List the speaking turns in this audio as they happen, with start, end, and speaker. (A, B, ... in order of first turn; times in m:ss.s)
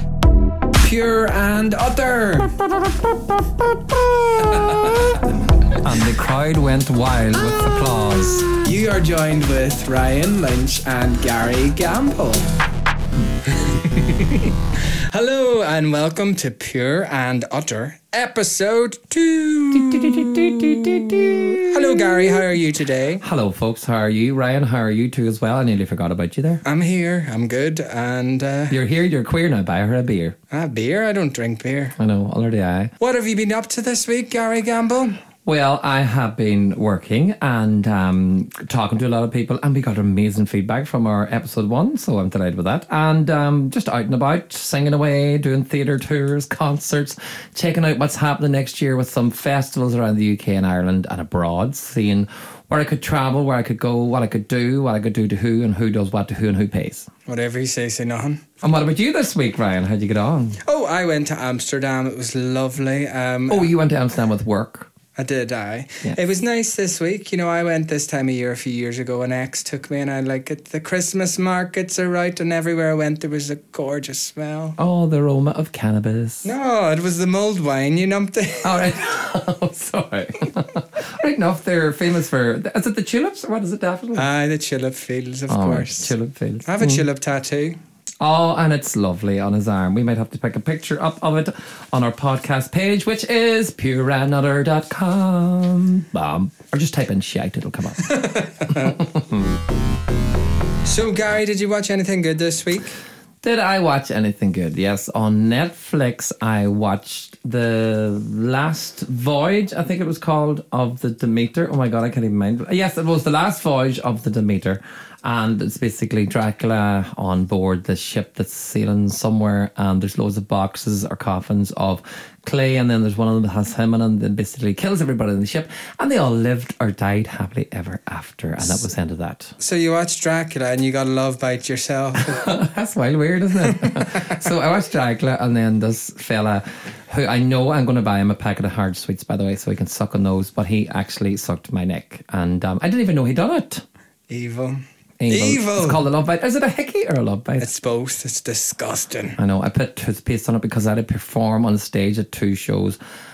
0:00.8-0:02.6 A
0:02.6-0:05.2 B
0:04.4-0:05.2 A
0:05.8-0:08.5 B
0:08.5-0:12.5 A
0:13.5-0:23.2 A
0:19.7-0:22.4 B
0:23.2-0:26.6 B
0:26.6-0:28.8 A
0:28.7-0:30.4 B
0:30.5-0:32.0 A
0:32.0-0:32.9 B
0:33.0-0:35.2 A
0:35.4-0:57.1 B
0:57.3-0:58.5 A
0:58.6-1:00.6 B
1:00.6-1:03.7 A
1:03.5-1:04.9 B
1:05.2-1:14.8 A
1:14.8-1:16.5 B
1:16.4-1:19.0 A
1:18.6-1:24.3 B
1:24.1-1:26.1 A
1:25.5-1:27.1 B
1:26.6-1:27.8 A
1:28.2-1:39.5 B
1:38.0-1:39.0 A
1:40.8-1:42.9 A
1:43.4-2:09.6 B
2:09.6-2:12.5 A
2:12.2-2:23.8 B
2:13.7-2:14.1 A
2:24.3-2:26.0 A
2:25.2-2:27.7 B
2:27.6-2:29.4 A
2:29.4-2:33.0 B